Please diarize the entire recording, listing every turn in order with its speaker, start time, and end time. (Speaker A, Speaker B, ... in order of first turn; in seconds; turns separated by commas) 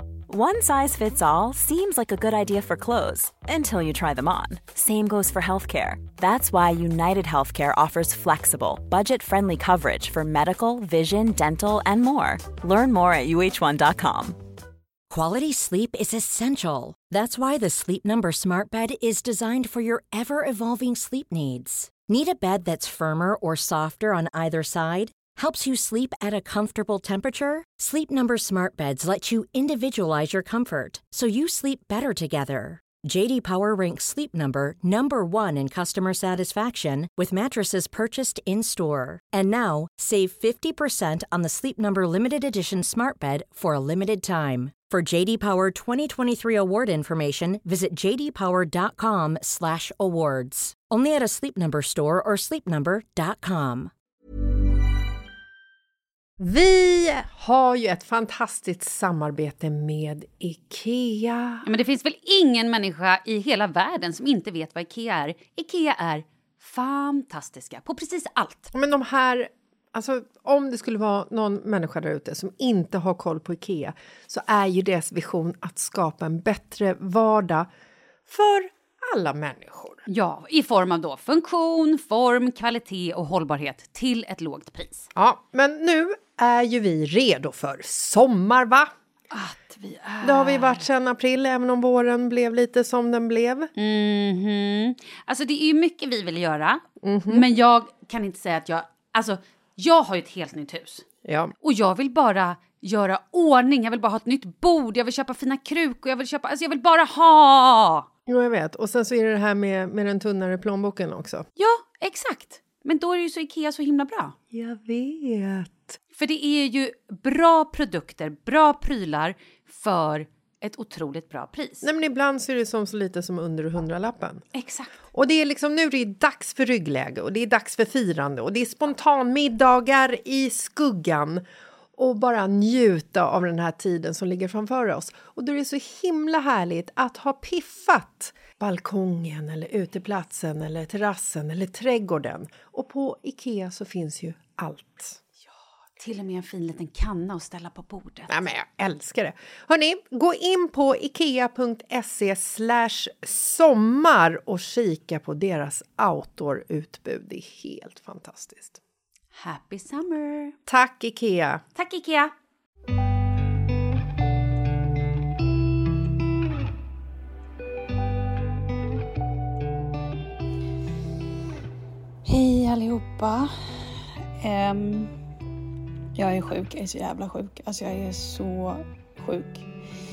Speaker A: 0.3-14.4, Speaker B: 15.1-53.9, Speaker C: 56.4-61.7, Speaker D: 61.7-68.7, Speaker C: 68.7-77.7, Speaker C: 78.3-80.0, Speaker D: 80.1-85.1, Speaker C: 85.2-88.9, Speaker D: 89.3-90.9, Speaker C: 90.2-93.7, Speaker D: 93.8-101.1, Speaker C: 97.0-97.5, Speaker C: 101.2-101.5, Speaker D: 101.6-108.1, Speaker C: 108.3-111.5, Speaker D: 111.6-114.3, Speaker C: 114.5-116.0, Speaker D: 116.1-121.9, Speaker C: 121.8-124.4, Speaker D: 124.5-124.9, Speaker C: 125.1-131.4, Speaker C: 132.0-145.2, Speaker D: 146.0-148.3, Speaker C: 148.3-158.8, Speaker D: 159.3-160.6, Speaker C: 160.7-161.6, Speaker D: 161.8-162.3, Speaker E: 172.2-173.5, Speaker E: 174.4-175.1, Speaker E: 176.2-179.7